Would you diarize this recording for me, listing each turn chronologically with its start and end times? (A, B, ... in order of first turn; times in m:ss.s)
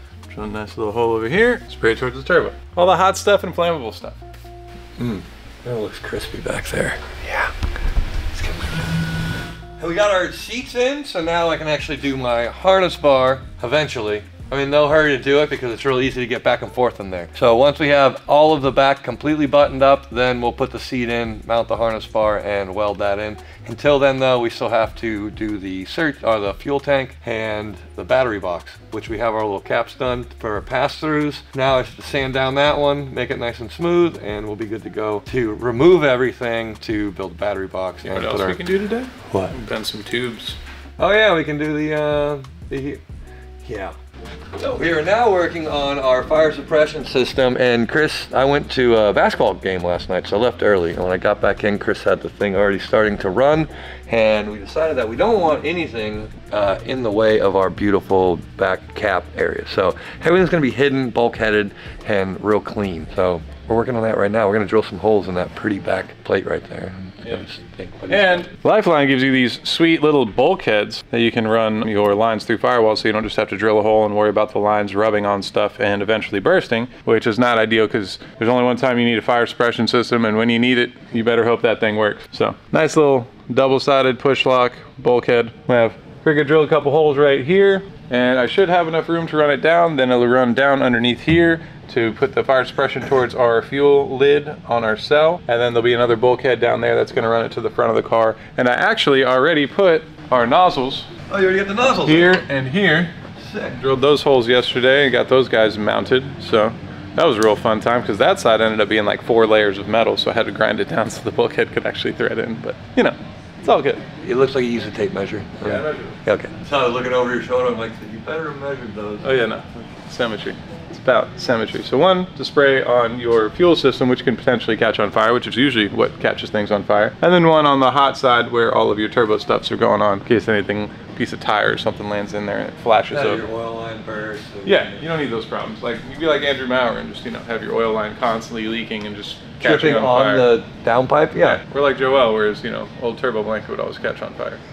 0:00.3-0:04.2 A
0:05.0-0:07.5 B
0:08.3-0:08.9 B
0:09.8-0:38.6 B
0:38.0-0:40.6 A
0:39.3-0:39.6 B
0:41.0-0:43.0 B
0:43.6-0:44.0 B
0:44.6-1:08.5 B
1:08.1-1:41.1 A
1:41.3-1:42.4 B
1:42.0-1:43.1 A
1:43.4-1:43.8 B
1:43.7-1:54.0 A
1:54.2-1:59.3 B
1:55.6-1:56.2 A
1:59.2-2:13.4 A
2:13.1-2:15.0 B
2:14.6-2:20.5 A
2:19.6-2:21.6 B
2:21.4-2:24.6 A